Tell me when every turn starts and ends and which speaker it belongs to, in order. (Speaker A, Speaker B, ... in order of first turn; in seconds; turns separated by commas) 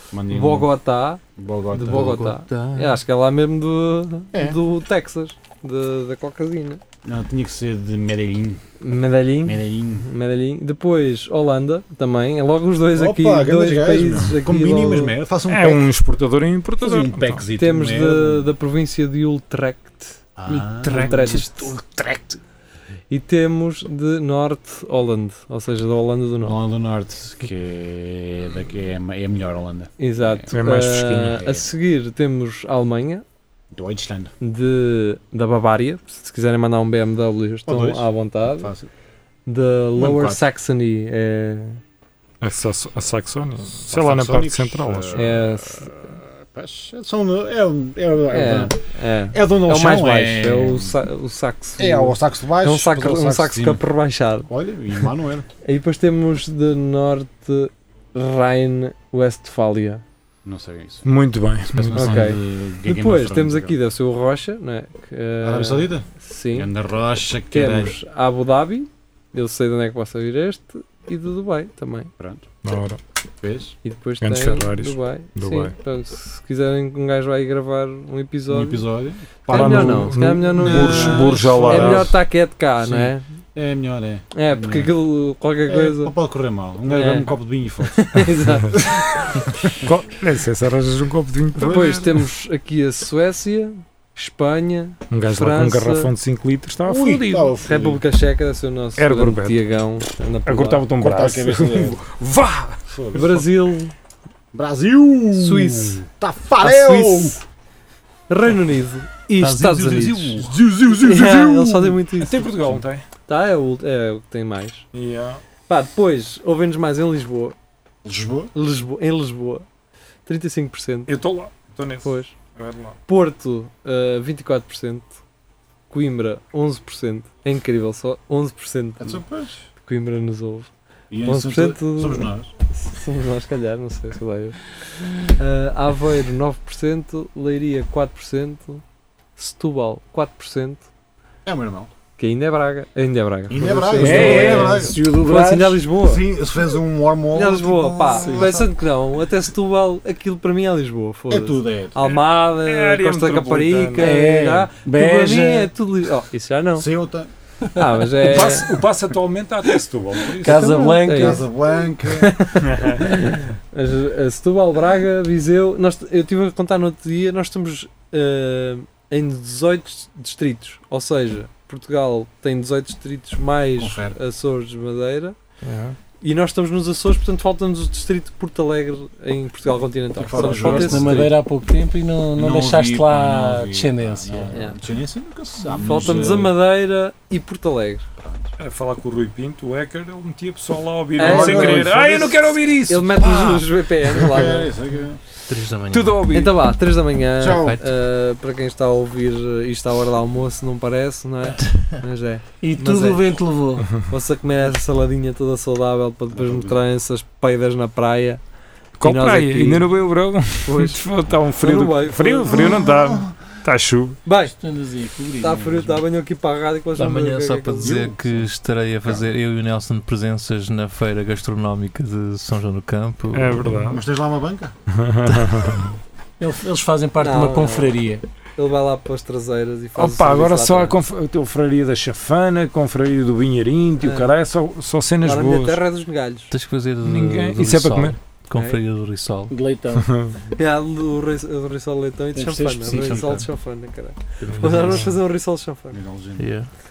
Speaker A: 0.1-0.7, Speaker B: 0.3-6.8, Speaker A: 1.4-2.2, Speaker C: 1.9-3.0, Speaker A: 4.3-4.6, Speaker A: 7.0-8.6, Speaker B: 8.8-15.2, Speaker A: 9.4-10.1, Speaker A: 12.9-15.9, Speaker D: 15.5-17.4, Speaker A: 16.8-18.5, Speaker B: 17.6-21.8, Speaker A: 20.4-22.4, Speaker B: 23.1-26.6, Speaker A: 26.4-30.5, Speaker B: 30.0-33.2, Speaker D: 30.5-31.4, Speaker A: 31.3-31.7, Speaker A: 33.7-34.3, Speaker B: 34.4-38.7, Speaker A: 37.6-38.9, Speaker B: 39.5-41.8, Speaker A: 40.0-40.4, Speaker D: 42.4-45.3, Speaker A: 43.9-48.8, Speaker B: 45.1-46.1, Speaker B: 48.3-54.5, Speaker A: 49.3-50.9, Speaker A: 51.8-53.8, Speaker A: 54.5-55.5, Speaker B: 55.6-60.0, Speaker A: 60.4-61.1, Speaker D: 61.0-62.2, Speaker A: 61.7-63.8, Speaker B: 61.9-66.7, Speaker A: 65.4-68.0, Speaker B: 67.5-72.1, Speaker A: 72.2-72.5, Speaker D: 72.6-73.0, Speaker A: 73.4-73.7, Speaker B: 73.8-78.9, Speaker D: 74.2-75.7, Speaker A: 78.5-82.2, Speaker D: 79.5-82.1, Speaker B: 79.5-83.2, Speaker A: 82.8-84.9, Speaker B: 84.3-86.1, Speaker A: 85.7-89.7, Speaker B: 86.9-87.3, Speaker B: 87.8-88.9, Speaker D: 89.8-92.2, Speaker B: 91.6-96.1, Speaker D: 95.1-97.5, Speaker A: 96.8-98.0, Speaker B: 97.0-100.9, Speaker D: 99.0-99.6, Speaker D: 100.5-102.8, Speaker A: 101.0-102.0, Speaker A: 102.9-103.2, Speaker B: 103.1-103.9, Speaker A: 104.5-107.4, Speaker B: 105.3-106.0, Speaker B: 106.6-107.4, Speaker B: 108.3-112.5, Speaker A: 109.4-112.0, Speaker D: 112.2-113.0, Speaker B: 113.2-114.8, Speaker D: 114.9-115.4, Speaker B: 115.7-117.5, Speaker A: 118.0-118.5, Speaker B: 118.5-119.6, Speaker B: 120.2-121.1, Speaker D: 121.0-123.0, Speaker B: 122.0-122.3, Speaker B: 123.0-125.1, Speaker B: 125.9-129.2, Speaker A: 129.0-129.5, Speaker B: 129.8-130.7, Speaker A: 131.1-132.5, Speaker B: 131.2-138.8, Speaker B: 139.3-140.8, Speaker A: 141.4-141.9, Speaker B: 142.2-146.2, Speaker A: 143.5-144.9, Speaker E: 143.6-145.8, Speaker D: 143.9-144.9, Speaker A: 146.0-148.7, Speaker B: 147.3-156.9, Speaker E: 148.2-148.5, Speaker A: 151.3-152.0, Speaker D: 152.5-154.2, Speaker E: 154.0-155.7, Speaker A: 156.8-157.3, Speaker B: 157.7-158.8, Speaker D: 158.2-160.8, Speaker E: 160.3-161.5, Speaker B: 160.4-161.5, Speaker A: 161.0-162.4, Speaker B: 162.1-175.3, Speaker D: 162.6-163.1, Speaker A: 173.8-174.2, Speaker C: 175.6-176.0, Speaker B: 176.2-181.3, Speaker A: 180.1-181.3, Speaker E: 180.3-184.7, Speaker A: 182.3-186.5, Speaker B: 184.5-184.8, Speaker E: 185.7-186.3, Speaker B: 185.7-188.0, Speaker A: 188.2-188.5, Speaker D: 188.6-193.7, Speaker B: 191.2-194.7, Speaker A: 191.2-192.5, Speaker A: 194.1-195.2, Speaker C: 195.5-196.2, Speaker D: 195.9-196.5, Speaker B: 196.3-203.4, Speaker A: 197.4-197.8, Speaker C: 197.5-197.8, Speaker E: 202.6-203.9, Speaker B: 204.1-208.4, Speaker A: 206.3-206.8, Speaker D: 209.0-214.2, Speaker B: 209.0-209.9, Speaker B: 210.6-212.8, Speaker A: 212.5-213.3, Speaker B: 214.2-214.5, Speaker E: 214.4-216.0, Speaker B: 215.4-218.0, Speaker C: 216.9-223.8, Speaker A: 217.8-219.3, Speaker D: 223.3-224.0, Speaker A: 223.9-224.7, Speaker D: 225.0-225.9, Speaker E: 226.4-228.2, Speaker B: 227.2-228.0, Speaker B: 228.6-231.0, Speaker D: 229.9-235.8, Speaker B: 234.0-234.3, Speaker B: 235.2-236.5, Speaker C: 236.5-239.5, Speaker D: 237.0-238.2, Speaker B: 238.5-238.8, Speaker E: 239.5-240.1, Speaker D: 240.1-240.3, Speaker B: 240.5-246.0, Speaker E: 242.3-243.3, Speaker C: 242.8-243.3, Speaker A: 242.9-243.5, Speaker C: 244.4-245.1, Speaker A: 245.9-246.4, Speaker C: 246.4-246.7